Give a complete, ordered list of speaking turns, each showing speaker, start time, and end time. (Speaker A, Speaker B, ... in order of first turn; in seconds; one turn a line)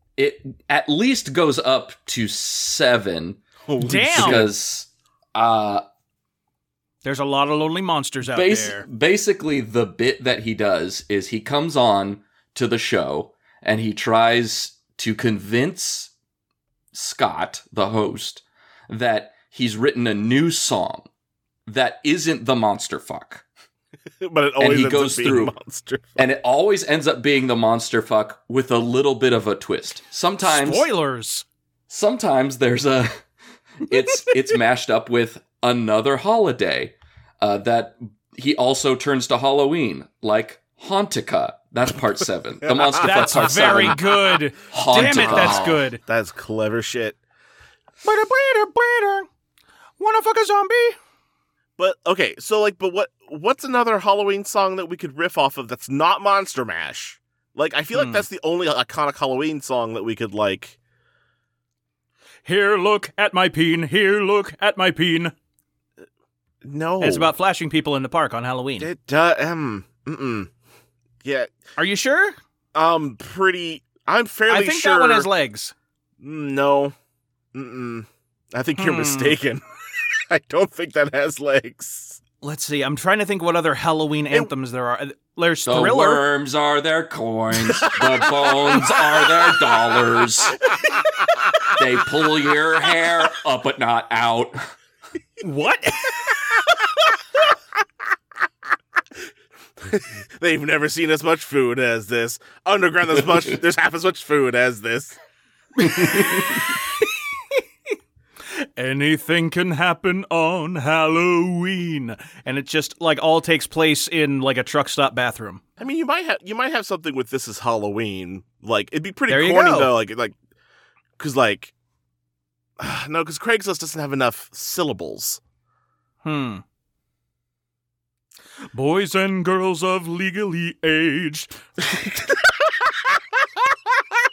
Speaker A: 0.2-5.8
Speaker B: 3.7-4.5
Speaker C: 3.8-4.4
Speaker C: 7.0-8.8
Speaker A: 8.3-16.1
Speaker A: 16.9-21.1
Speaker A: 21.7-23.4
Speaker B: 24.2-26.2
Speaker A: 24.6-25.5
Speaker A: 26.2-30.9
Speaker C: 30.4-31.4
Speaker A: 31.9-33.2
Speaker A: 33.8-45.8
Speaker B: 42.7-44.0
Speaker C: 43.0-46.0
Speaker B: 44.9-47.2
Speaker C: 48.0-49.3
Speaker C: 50.0-51.0
Speaker B: 51.8-60.8
Speaker C: 57.9-58.2
Speaker C: 62.4-65.3
Speaker B: 66.6-67.3
Speaker C: 67.0-68.9
Speaker B: 68.8-70.5
Speaker B: 71.2-71.5
Speaker C: 71.8-72.3
Speaker B: 72.7-75.3
Speaker C: 74.5-75.7
Speaker B: 76.2-76.9
Speaker B: 77.5-82.2
Speaker C: 78.8-79.4
Speaker C: 82.4-86.2
Speaker A: 85.7-90.6
Speaker B: 87.7-90.0
Speaker A: 91.7-94.7
Speaker C: 95.4-96.8
Speaker B: 99.8-105.2
Speaker C: 105.8-106.7
Speaker C: 108.6-115.6
Speaker B: 115.8-120.3
Speaker C: 119.3-119.9
Speaker B: 121.2-121.7
Speaker B: 122.8-125.4
Speaker C: 126.2-126.6
Speaker C: 128.7-131.6
Speaker B: 131.9-134.0